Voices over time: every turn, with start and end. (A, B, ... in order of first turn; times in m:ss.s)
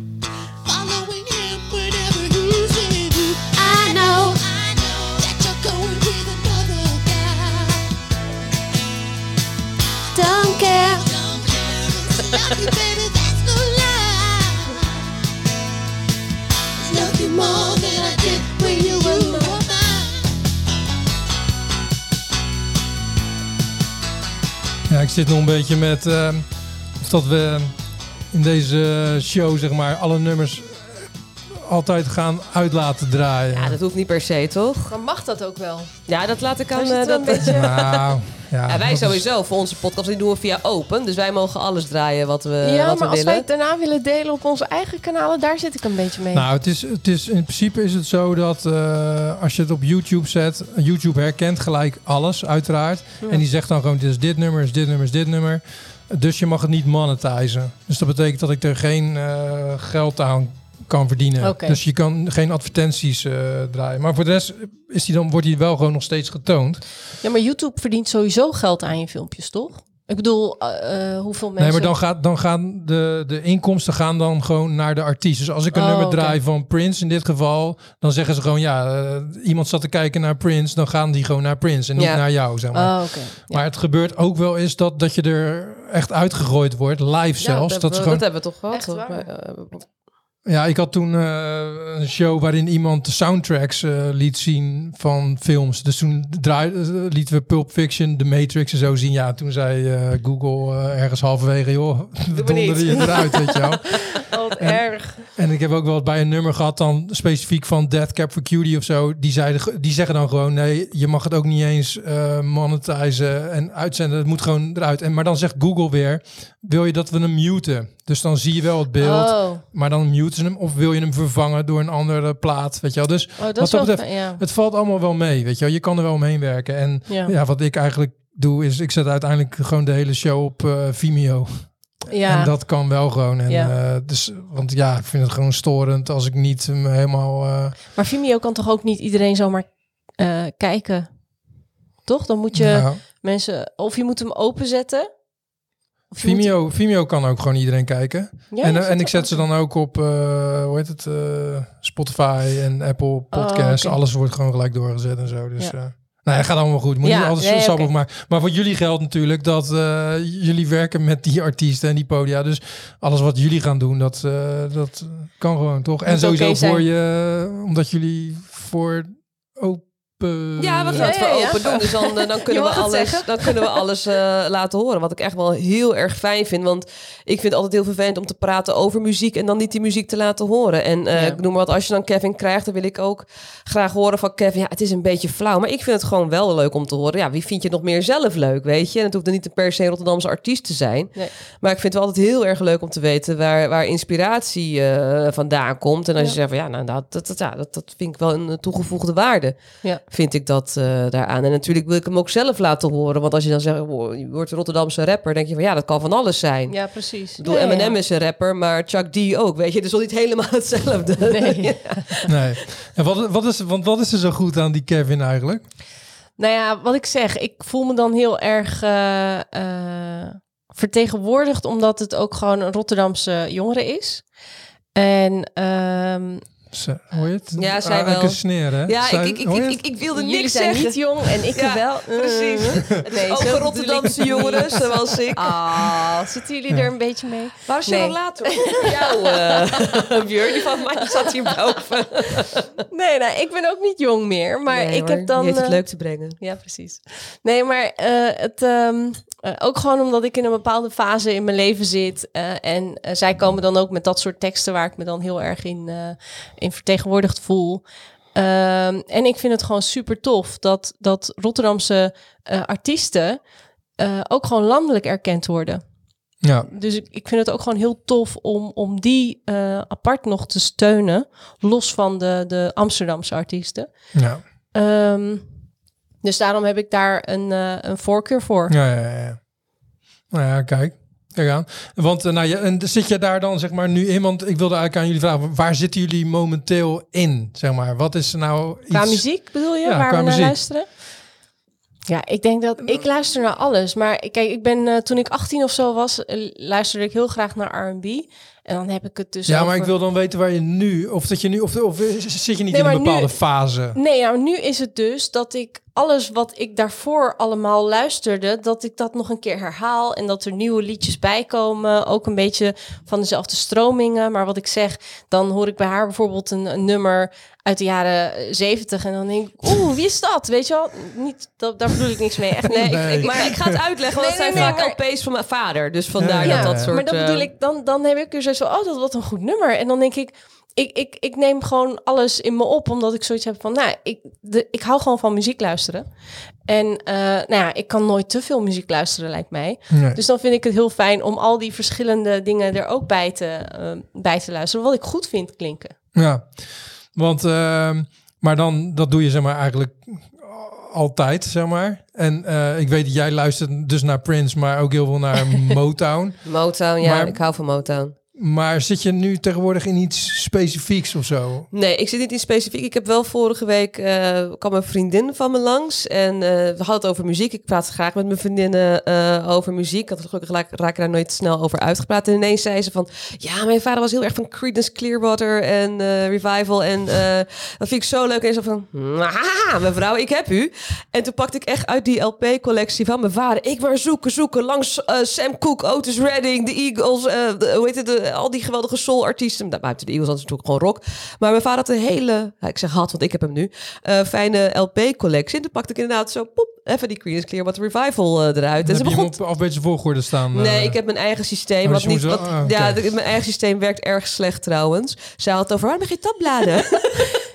0:00.6-0:08.0 A
0:10.1-0:14.8 A
0:16.8-0:20.3 A
0:24.9-0:27.8 B
0:28.3-0:33.8 B
0:33.5-0:34.9 C
0:34.9-0:36.0 D
0:36.1-0:38.0 C
0:36.7-0:37.7 D
0:37.4-0:39.2 B
0:38.6-0:43.4 C
0:42.6-0:46.4 D
0:46.3-1:06.8 B
1:01.4-1:01.8 D
1:07.2-1:11.9 D
1:11.6-1:28.3 B
1:15.7-1:16.4 D
1:22.0-1:22.2 C
1:22.7-1:23.6 D
1:27.4-1:29.8 C
1:28.7-1:29.3 D
1:30.4-2:17.8 B
1:42.3-1:43.8 C
1:44.3-1:45.2 D
1:59.0-1:59.6 D
2:03.4-2:04.4 D
2:07.1-2:07.3 D
2:12.1-2:13.7 D
2:17.9-2:21.1 D
2:22.0-2:25.1 D
2:22.5-2:23.0 B
2:26.1-2:26.5 D
2:26.2-2:51.6 B
2:28.5-2:29.4 D
2:33.3-2:34.0 D
2:37.0-2:37.9 D
2:46.0-2:46.8 D
2:50.6-3:32.3 C
2:50.9-2:53.8 D
3:01.1-3:01.4 D
3:26.7-3:28.0 D
3:31.3-3:32.0 D
3:32.3-3:35.6 B
3:36.4-3:44.3 D
3:44.9-3:46.4 D
3:46.7-3:49.9 B
3:47.6-3:56.0 C
3:50.1-3:59.4 D
3:57.6-4:02.6 C
4:02.9-4:23.4 D
4:04.7-4:06.4 C
4:24.0-4:25.8 D
4:26.4-4:26.7 B
4:26.7-4:33.9 D
4:34.1-4:34.4 B
4:34.7-4:35.5 D
4:36.2-4:38.7 D
4:38.7-4:39.5 B
4:40.3-4:50.6 B
4:48.9-4:50.9 D
4:52.1-4:59.9 D
4:59.5-5:04.0 B
5:02.7-5:03.4 D
5:03.9-5:25.0 D
5:22.7-5:23.8 B
5:22.7-5:27.5 C
5:26.2-5:26.9 B
5:26.4-5:36.1 D
5:36.6-5:45.9 D
5:39.9-5:40.2 B
5:46.1-5:57.4 B
5:56.4-5:58.1 C
5:58.3-6:01.7 B
6:01.7-6:39.4 C
6:38.8-6:41.0 B
6:40.5-6:47.4 C
6:41.8-6:43.1 B